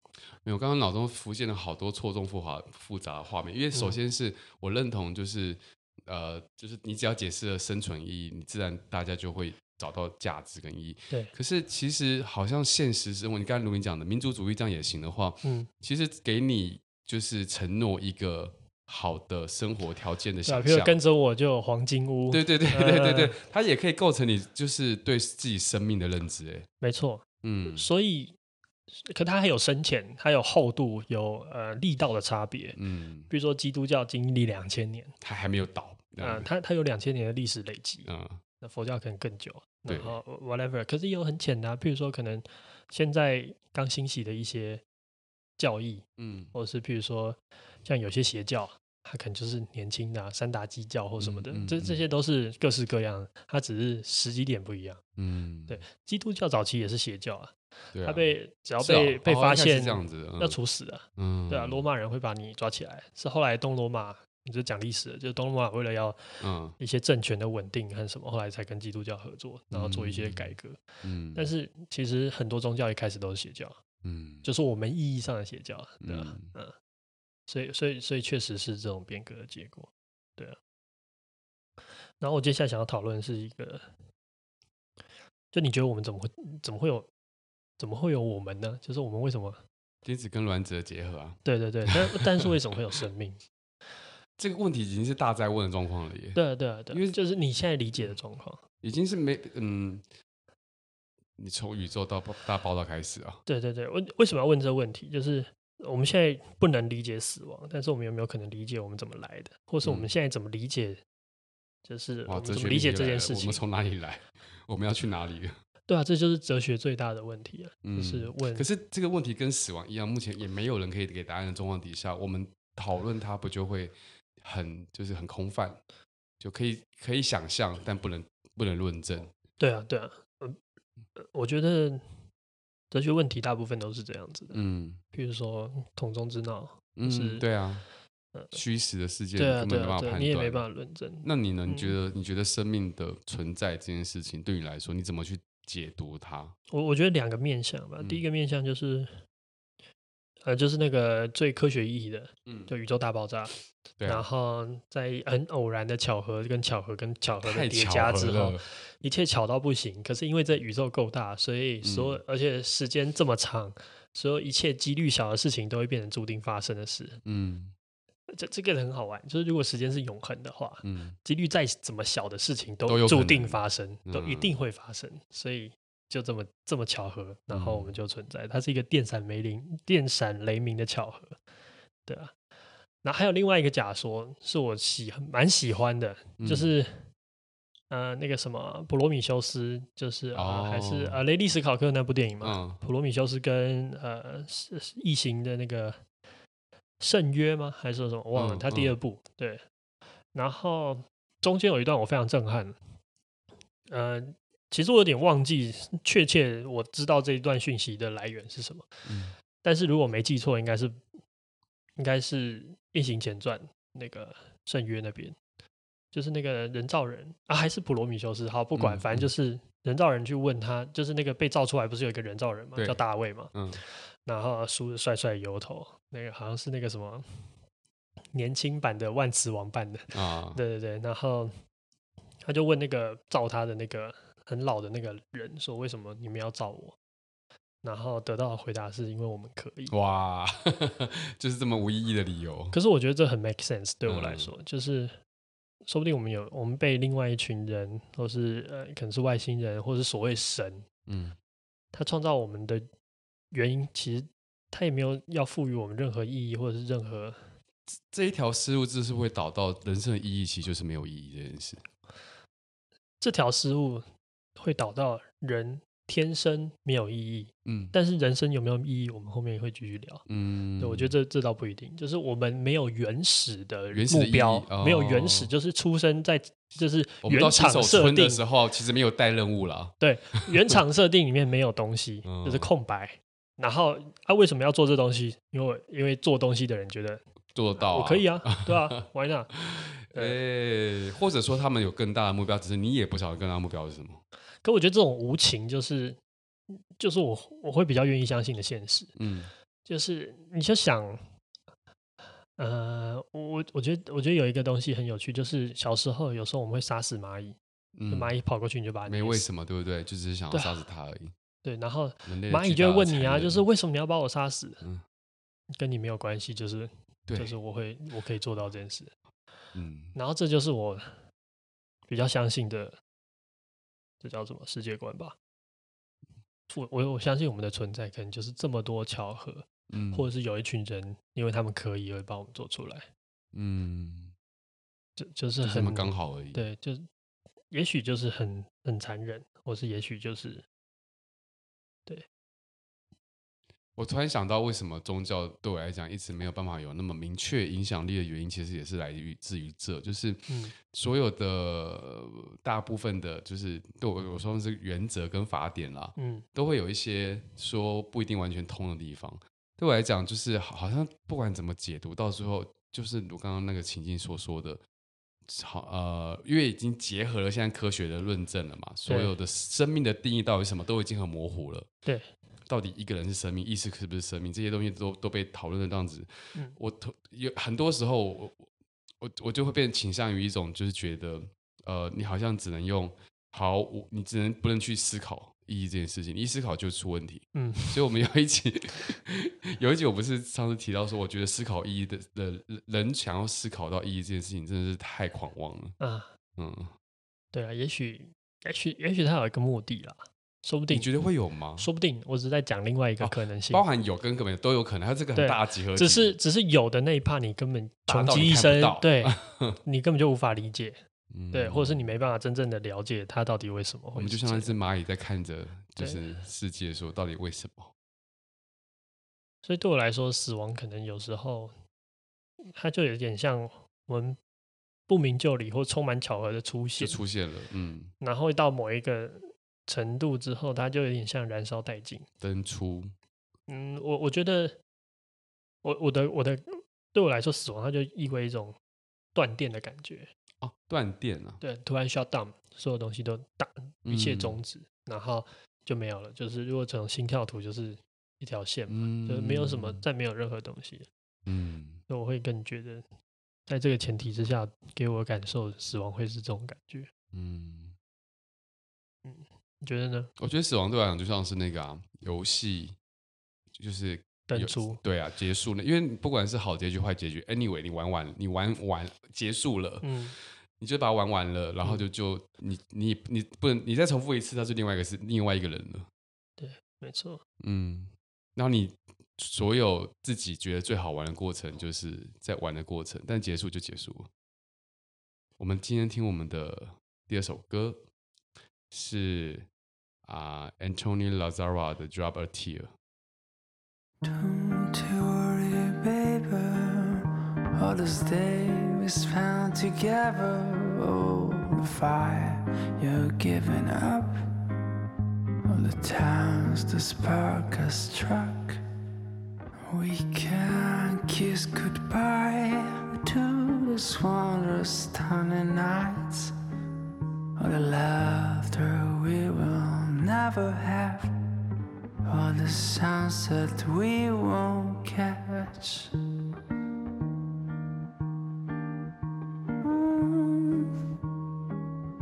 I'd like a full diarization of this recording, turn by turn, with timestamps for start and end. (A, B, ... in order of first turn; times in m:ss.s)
0:00.4-0:21.0 A
0:15.4-0:15.7 B
0:20.4-0:23.4 B
0:22.3-0:26.7 A
0:26.8-0:28.3 B
0:27.4-0:27.9 A
0:28.9-0:32.8 B
0:32.7-0:33.3 A
0:33.3-0:35.1 B
0:35.2-0:36.5 A
0:36.2-0:38.1 B
0:38.0-0:38.4 A
0:38.6-0:44.8 B
0:39.9-0:40.2 A
0:45.6-0:55.0 B
0:46.2-0:46.5 A
0:51.2-0:52.0 A
0:55.2-0:55.8 A
0:55.7-1:06.2 B
0:57.9-1:00.6 A
1:01.2-1:01.8 A
1:06.4-1:06.8 A
1:06.8-1:10.8 B
1:09.7-1:11.5 A
1:11.3-1:13.8 B
1:14.0-1:14.5 A
1:14.4-1:16.7 B
1:16.0-1:16.5 A
1:17.5-1:20.6 B
1:22.2-1:23.9 B
1:25.5-1:27.1 B
1:27.8-1:29.6 B
1:30.0-1:32.5 A
1:31.4-1:33.4 B
1:34.4-1:37.2 A
1:36.3-1:38.6 B
1:38.8-1:40.0 A
1:41.4-1:43.4 A
1:43.5-1:51.0 B
1:49.8-1:50.1 A
1:51.8-1:53.6 B
1:52.3-1:55.6 A
1:55.9-1:58.6 B
1:57.8-2:05.8 A
2:06.4-2:09.3 A
2:09.6-2:10.6 B
2:11.2-2:12.0 B
2:12.9-2:14.6 B
2:14.5-2:15.0 A
2:15.1-2:17.4 B
2:17.0-2:17.8 A
2:18.5-2:20.6 A
2:19.4-2:21.9 B
2:21.2-2:26.5 A
2:26.7-2:29.2 B
2:30.4-2:47.2 B
2:32.4-2:32.7 A
2:34.0-2:34.3 A
2:37.4-2:38.6 A
2:41.8-2:42.2 A
2:47.2-2:47.7 A
2:48.3-3:01.4 B
2:50.8-2:51.2 A
2:52.8-2:54.5 A
2:57.5-2:57.9 A
3:02.0-3:02.3 B
3:03.0-3:07.1 B
3:06.4-3:06.7 A
3:07.9-3:16.0 B
3:10.3-3:11.2 A
3:12.4-3:12.8 A
3:17.0-3:19.6 B
3:18.3-3:18.9 A
3:20.3-3:22.8 B
3:23.9-3:28.9 B
3:29.0-3:29.3 A
3:29.6-3:31.0 B
3:32.0-3:35.4 B
3:36.1-3:43.5 B
3:38.8-3:39.3 A
3:42.8-3:43.8 A
3:44.2-3:47.2 B
3:48.3-3:51.5 B
3:50.1-3:50.6 A
3:52.4-3:57.0 B
3:57.8-3:59.9 B
3:59.9-4:02.8 A
4:02.7-4:05.1 B
4:04.1-4:04.5 A
4:05.8-4:10.8 B
4:11.1-4:11.4 A
4:11.9-4:12.9 B
4:13.5-4:17.5 B
4:17.9-4:21.8 A
4:23.2-4:24.0 B
4:24.6-4:30.2 B
4:27.6-4:27.9 A
4:30.3-4:31.1 A
4:30.8-4:38.4 B
4:33.9-4:35.5 A
4:37.2-4:39.9 A
4:40.0-4:47.2 B
4:42.2-4:42.7 A
4:47.5-4:49.0 A
4:47.8-4:49.5 B
4:49.6-4:54.2 A
4:50.1-4:50.4 B
4:54.6-4:56.2 B
4:56.7-4:59.1 B
4:59.2-4:59.5 A
4:59.8-5:01.2 B
5:02.6-5:07.6 B
5:07.9-5:08.3 A
5:08.1-5:09.4 B
5:09.1-5:11.3 A
5:10.5-5:10.8 B
5:11.6-5:14.8 B
5:12.2-5:13.6 A
5:15.7-5:19.1 B
5:17.3-5:17.5 A
5:19.7-5:20.1 A
5:20.1-5:21.2 B
5:22.1-5:23.0 B
5:24.2-5:25.4 B
5:26.7-5:33.1 B
5:29.9-5:30.3 A
5:33.5-5:34.3 A
5:35.2-5:37.0 B
5:35.6-5:36.6 A
5:37.7-5:40.6 B
5:44.0-6:04.8 A
5:50.5-5:50.7 B
5:56.2-5:56.4 B
6:05.5-6:11.9 A
6:09.1-6:09.3 B
6:12.0-6:12.3 B
6:12.7-6:18.7 A
6:19.2-6:35.9 A
6:27.5-6:28.0 B
6:36.0-6:36.3 B
6:36.6-6:36.9 A
6:37.5-6:41.1 B
6:40.9-6:41.9 A
6:41.8-6:43.8 B
6:43.2-6:46.3 A
6:45.3-6:51.0 B
6:48.1-6:49.8 A
6:51.3-6:52.1 A
6:51.5-6:54.7 B
6:54.2-6:57.9 A
6:56.0-6:56.4 B
6:59.6-7:01.7 B
7:02.7-7:04.4 B
7:05.1-7:07.2 B
7:07.0-7:08.1 A
7:08.2-7:12.2 B
7:12.4-7:13.1 A
7:13.7-7:14.8 B
7:15.8-7:18.8 B
7:19.3-7:20.3 B
7:20.6-7:21.6 A
7:21.6-7:31.1 B
7:24.0-7:24.6 A
7:28.9-7:30.0 A
7:31.4-7:32.0 A
7:32.1-7:33.0 B
7:33.7-7:37.1 B
7:37.3-7:37.9 A
7:39.2-7:40.3 B
7:40.4-7:43.0 A
7:43.7-7:50.2 A
7:44.5-7:45.0 B
7:50.0-7:50.3 B
7:50.8-7:56.1 A
7:56.6-7:57.4 B
7:57.6-8:04.3 A
8:05.6-8:08.0 A
8:08.9-8:09.7 A
8:10.2-8:12.9 A
8:14.2-8:17.2 C
8:17.7-8:24.4 C
8:25.6-8:28.8 C
8:29.9-8:36.5 C
8:37.6-8:41.3 C
8:42.2-8:46.1 C
8:49.8-8:50.9 C